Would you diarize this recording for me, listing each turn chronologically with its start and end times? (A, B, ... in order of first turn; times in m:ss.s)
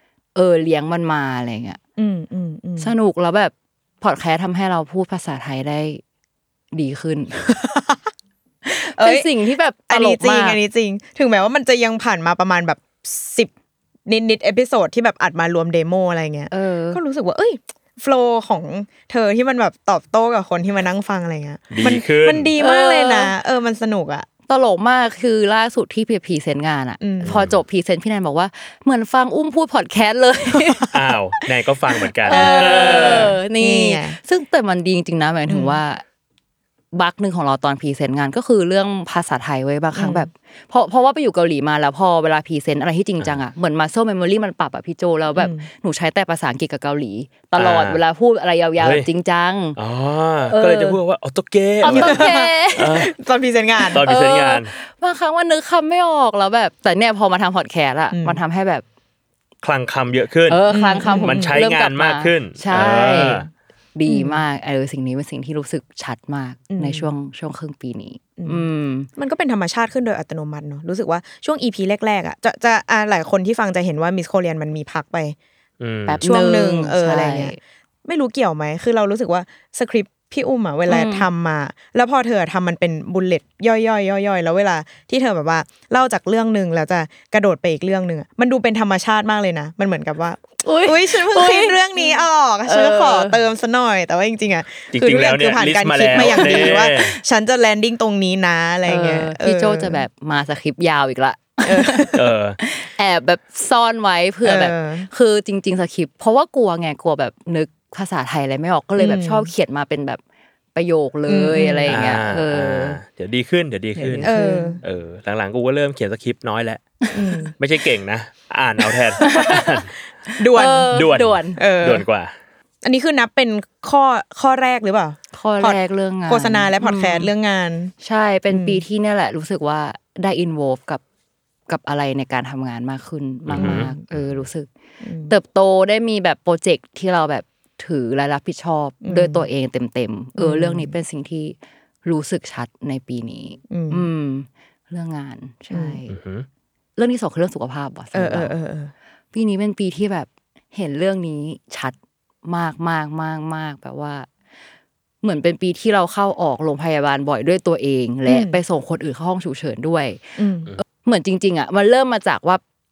0:00.3-0:01.8 A
0:02.0-0:02.9 B
0:02.8-0:06.0 A
0:06.7-0:07.5 A
0:07.5-0:08.1 B
0:08.6-0:10.6 A
0:08.7-0:09.3 B
0:09.9-0:13.5 B
0:14.1-0:24.2 B
0:16.5-0:17.0 A
0:21.7-0:22.5 C
0:22.6-0:23.3 A
0:24.5-0:30.8 A
0:27.0-0:27.4 B
0:27.2-0:27.6 C
0:30.9-0:33.4 C
0:32.2-0:34.2 B
0:32.2-0:36.0 A
0:35.5-0:35.8 B
0:36.9-0:49.8 A
0:40.0-0:40.3 B
0:45.4-0:45.7 B
0:47.6-0:48.0 C
0:48.8-0:49.1 C
0:49.8-0:53.1 C
0:50.5-0:51.0 A
0:51.8-0:53.0 A
0:51.8-0:54.0 B
0:53.9-0:54.7 C
0:54.0-0:58.8 A
0:58.1-0:58.4 B
0:59.6-1:03.5 C
1:00.5-1:09.1 A
1:00.7-1:01.5 B
1:02.8-1:03.4 B
1:04.1-1:04.4 B
1:06.7-1:07.1 B
1:08.4-1:15.4 B
1:15.8-1:16.2 C
1:16.1-1:17.6 A
1:16.2-1:40.0 B
1:20.9-1:21.3 A
1:30.6-1:33.4 A
1:34.9-1:37.1 C
1:36.1-1:37.0 A
1:38.8-1:50.2 A
1:41.6-1:42.3 B
1:42.1-1:42.6 C
1:44.4-1:45.1 B
1:49.0-1:49.5 B
1:50.7-1:53.0 A
1:51.3-1:52.0 B
1:51.9-1:54.3 C
1:54.0-1:54.8 B
1:54.1-1:54.8 A
1:54.8-1:56.8 C
1:57.1-1:57.5 B
1:57.1-1:57.5 A
1:57.6-1:59.9 C
1:59.2-1:59.8 A
2:00.4-2:01.0 B
2:00.5-2:01.6 A
2:00.9-2:02.3 C
2:01.6-2:02.0 B
2:02.8-2:07.9 B
2:05.3-2:07.3 A
2:08.0-2:11.0 A
2:08.5-2:08.8 B
2:11.7-2:14.7 A
2:13.5-2:13.9 C
2:13.6-2:14.0 B
2:15.0-2:15.3 B
2:15.3-2:26.1 A
2:19.0-2:19.4 B
2:20.4-2:20.9 B
2:23.7-2:24.0 B
2:25.7-2:26.0 B
2:26.1-2:26.5 C
2:27.0-2:28.5 A
2:28.1-2:28.9 B
2:29.3-2:34.3 A
2:35.2-2:40.2 A
2:38.3-2:38.6 B
2:40.4-2:40.7 B
2:41.0-2:42.6 A